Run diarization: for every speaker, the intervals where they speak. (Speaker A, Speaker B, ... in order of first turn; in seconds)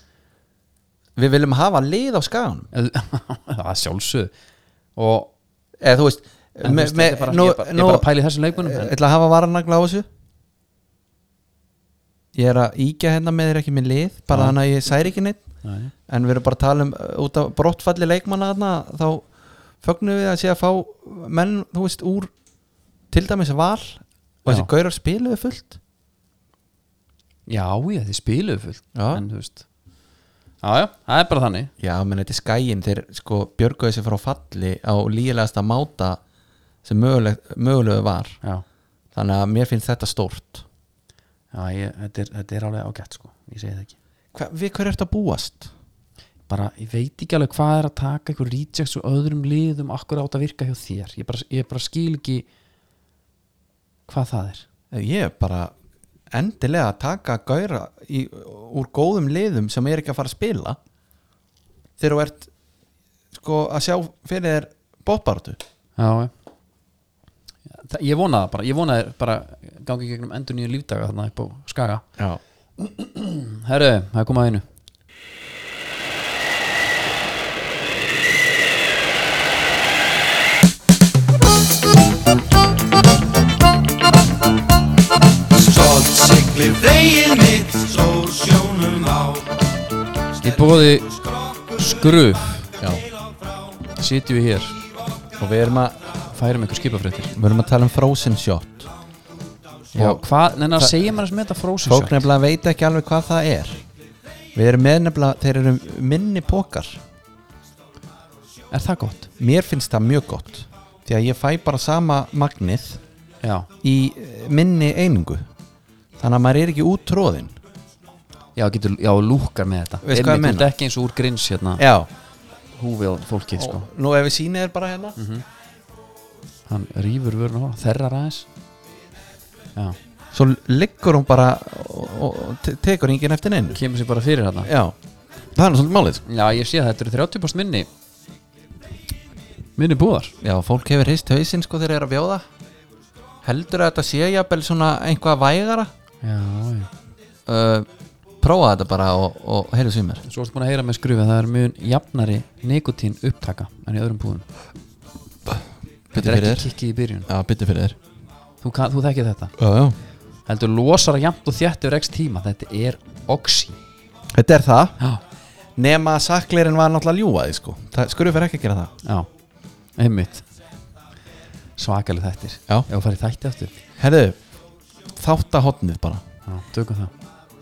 Speaker A: 1.1-2.7, 5.8-10.1, 12.3-15.4, 16.1-19.3, 19.8-22.3, 23.1-25.8, 28.9-29.2, 31.8-36.2, 36.8-38.4, 39.1-40.6, 44.3-45.7, 54.9-55.7, 56.3-60.8, 62.0-62.5, 63.3-65.6, 95.4-96.0, 97.3-98.9, 99.9-100.2, 101.8-103.8, 104.5-107.0, 109.4-113.0, 113.8-115.5, 116.2-117.5, 120.0-120.7, 121.8-122.1, 123.5-125.1, 130.3-133.8, 134.6-134.9, 135.5-136.2, 140.4-142.4, 143.4-145.9, 147.4-147.9, 148.4-150.2, 156.1-156.7, 157.3-158.0, 159.6-159.9, 164.3-165.0, 165.8-168.9, 174.0-174.4, 175.2-176.2
Speaker B: 2.7-4.3, 5.0-5.3, 6.6-8.9, 14.3-14.6, 15.6-15.9, 27.5-29.6, 30.6-31.7, 41.5-43.9, 46.5-52.5, 54.1-54.6, 66.0-66.3, 67.7-72.0, 72.8-74.6, 90.4-91.2, 91.7-92.7, 94.0-94.8, 96.3-97.3, 99.9-102.2, 108.7-109.3, 113.4-113.7, 118.5-121.8, 122.8-123.9, 125.2-125.4, 126.7-128.5, 133.7-134.7, 136.2-137.9, 139.8-140.3, 146.2-146.9, 150.2-154.5, 156.2-157.3, 158.6-159.5, 160.5-163.8, 169.0-169.3, 170.0-170.4, 171.8-173.8, 176.4-177.1
Speaker C: 85.6-89.4